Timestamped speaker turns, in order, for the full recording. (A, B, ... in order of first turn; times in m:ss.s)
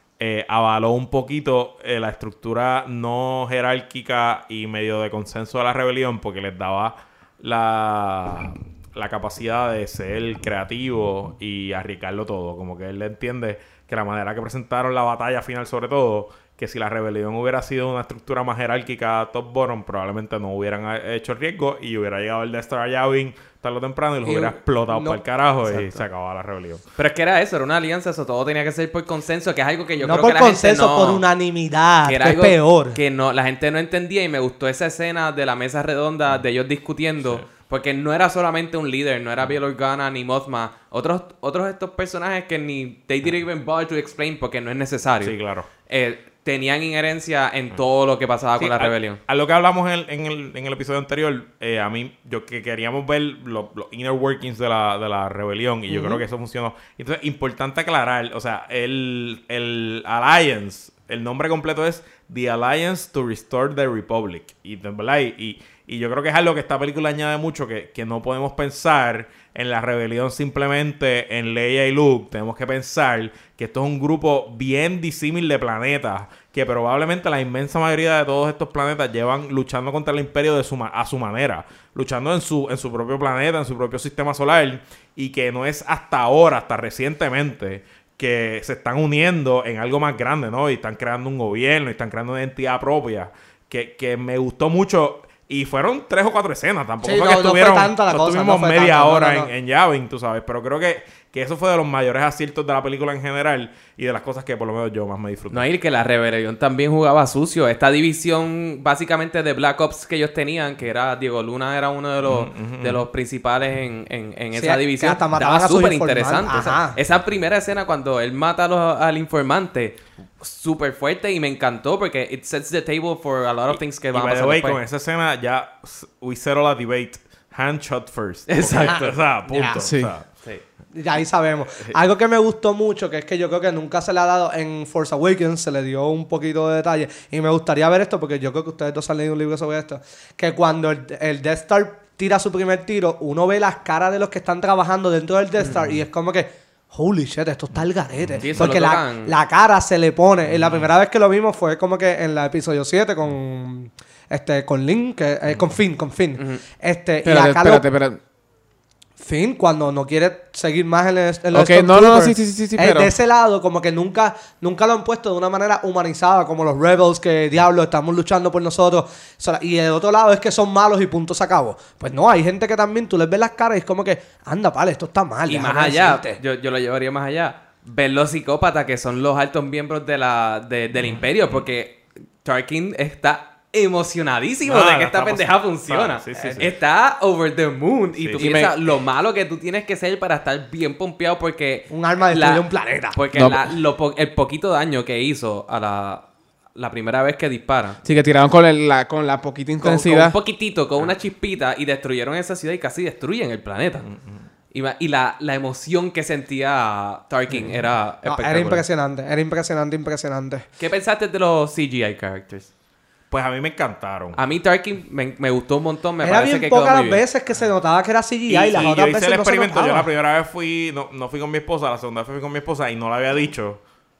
0:00.2-0:26.8 A
0:24.2-0:26.1 B
0:27.0-0:31.2 C
0:30.0-0:33.0 B
0:32.0-0:45.4 C
0:45.2-0:45.7 A
0:45.9-0:49.2 C
0:48.6-1:45.7 A
0:55.9-0:56.2 D
1:37.0-1:39.5 B
1:45.5-2:04.8 C
1:52.2-1:53.0 A
1:54.5-1:57.0 B
2:04.1-2:10.3 A
2:08.5-2:09.2 C
2:08.9-2:09.8 B
2:09.8-2:10.1 D
2:10.9-2:37.8 B
2:28.4-2:29.4 C
2:30.5-2:30.9 A
2:37.2-2:38.2 D
2:39.2-2:56.4 B
2:41.5-2:43.1 D
2:55.5-3:18.0 C
3:04.6-3:06.7 A
3:08.2-3:08.4 A
3:08.4-3:08.8 D
3:11.9-3:13.2 B
3:13.3-3:13.6 D
3:18.0-3:20.4 D
3:19.8-3:20.3 B
3:20.2-3:24.1 C
3:24.0-3:24.4 A
3:24.7-3:28.8 C
3:28.2-3:30.6 B
3:30.8-3:32.7 C
3:33.3-3:34.4 A
3:34.3-3:37.2 C
3:36.2-3:40.1 B
3:38.5-3:43.8 A